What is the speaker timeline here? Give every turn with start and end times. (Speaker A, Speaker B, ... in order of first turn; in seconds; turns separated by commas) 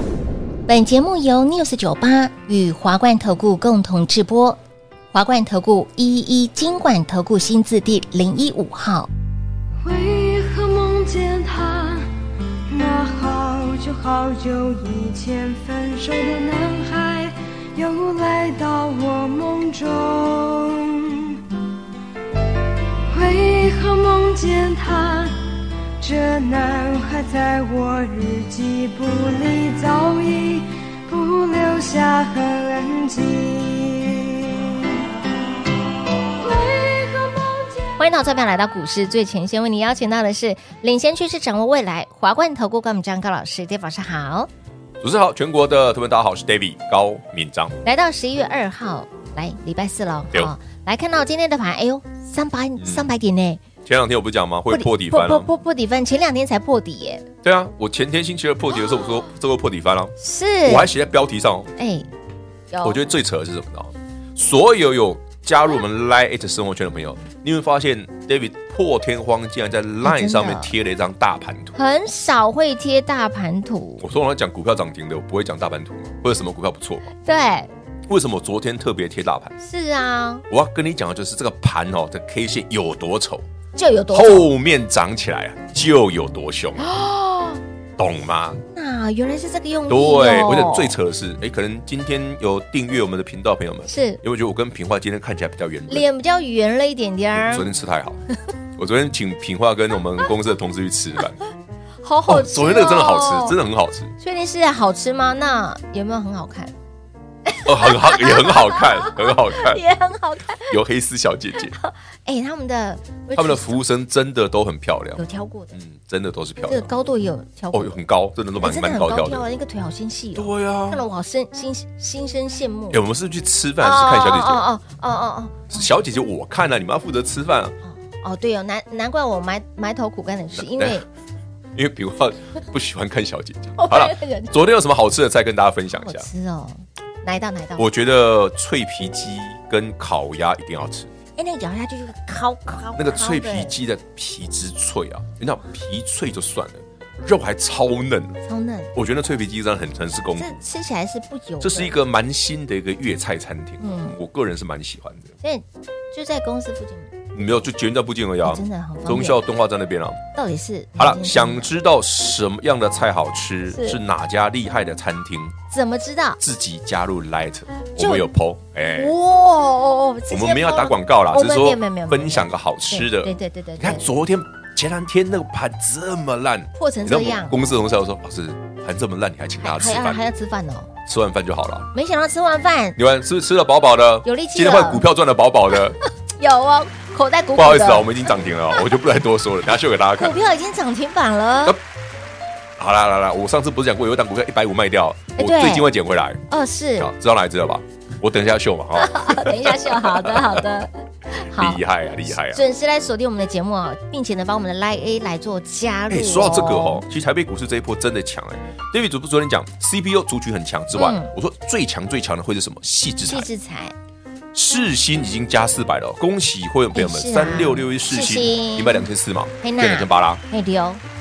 Speaker A: 0.7-4.6, Speaker A: 5.1-9.1, Speaker B: 9.8-12.1, Speaker B: 12.7-21.4, Speaker B: 23.1-25.5, Speaker B: 26.0-35.0, Speaker B: 36.4-37.9, Speaker A: 38.0-44.5, Speaker C: 45.0-47.7, Speaker A: 47.8-53.6, Speaker C: 52.8-53.1, Speaker C: 53.8-55.5, Speaker A: 54.7-57.2, Speaker C: 57.4-61.7, Speaker A: 60.2-60.9, Speaker A: 61.8-62.1, Speaker A: 62.7-63.0, Speaker C: 62.8-71.8, Speaker A: 70.0-70.7, Speaker A: 71.7-74.0, Speaker C: 74.0-77.0, Speaker A: 77.1-77.7, Speaker C: 78.1-79.5, Speaker A: 79.6-80.4, Speaker C: 80.5-83.5, Speaker A: 83.8-84.5, Speaker C: 84.1-86.9, Speaker A: 86.8-87.6, Speaker C: 88.0-88.6, Speaker A: 88.7-91.0, Speaker C: 89.9-96.1, Speaker A: 93.8-94.2, Speaker A: 95.9-97.7, Speaker C: 97.3-98.2, Speaker C: 98.8-101.4, Speaker A: 102.0-103.5, Speaker C: 102.3-104.1, Speaker A: 104.2-106.7, Speaker A: 107.5-110.7, Speaker C: 107.6-109.8, Speaker C: 110.6-111.7, Speaker A: 111.7-113.8, Speaker C: 113.3-116.9, Speaker A: 115.2-115.7, Speaker A: 116.7-118.0, Speaker C: 117.7-119.5, Speaker A: 118.5-123.0, Speaker C: 120.3-121.0, Speaker C: 122.9-124.6, Speaker A: 123.8-125.9, Speaker C: 125.7-127.8, Speaker A: 127.8-131.1, Speaker C: 130.5-131.1, Speaker C: 131.7-136.3, Speaker A: 133.8-134.5, Speaker A: 135.9-137.9, Speaker C: 137.8-141.1, Speaker A: 141.4-143.7, Speaker C: 142.9-148.4, Speaker A: 148.4-148.9, Speaker C: 148.9-150.6, Speaker A: 150.3-152.0, Speaker C: 151.6-155.3, Speaker A: 153.8-154.2, Speaker A: 155.4-157.1, Speaker C: 157.3-160.2, Speaker A: 158.4-159.4, Speaker A: 160.3-161.7, Speaker C: 161.0-165.5, Speaker A: 163.7-164.0, Speaker A: 165.7-166.4, Speaker C: 166.4-169.1, Speaker A: 168.0-168.2, Speaker A: 168.8-174.1, Speaker C: 170.3-180.2, Speaker A: 176.8-177.6, Speaker A: 179.6-180.9, Speaker C: 181.1-181.9, Speaker A: 181.9-183.0, Speaker C: 182.9-186.0, Speaker A: 184.2-185.1, Speaker A: 186.3-188.2, Speaker C: 187.6-190.4, Speaker A: 190.2-191.8, Speaker C: 192.8-196.4, Speaker A: 195.4-195.9, Speaker A: 196.5-197.1, Speaker C: 197.0-200.7, Speaker A: 198.9-201.8, Speaker C: 201.5-202.6, Speaker A: 202.3-207.0, Speaker C: 206.1-213.5, Speaker A: 210.9-211.3, Speaker A: 213.2-213.9, Speaker C: 214.5-220.4, Speaker A: 216.9-219.1, Speaker A: 219.6-221.0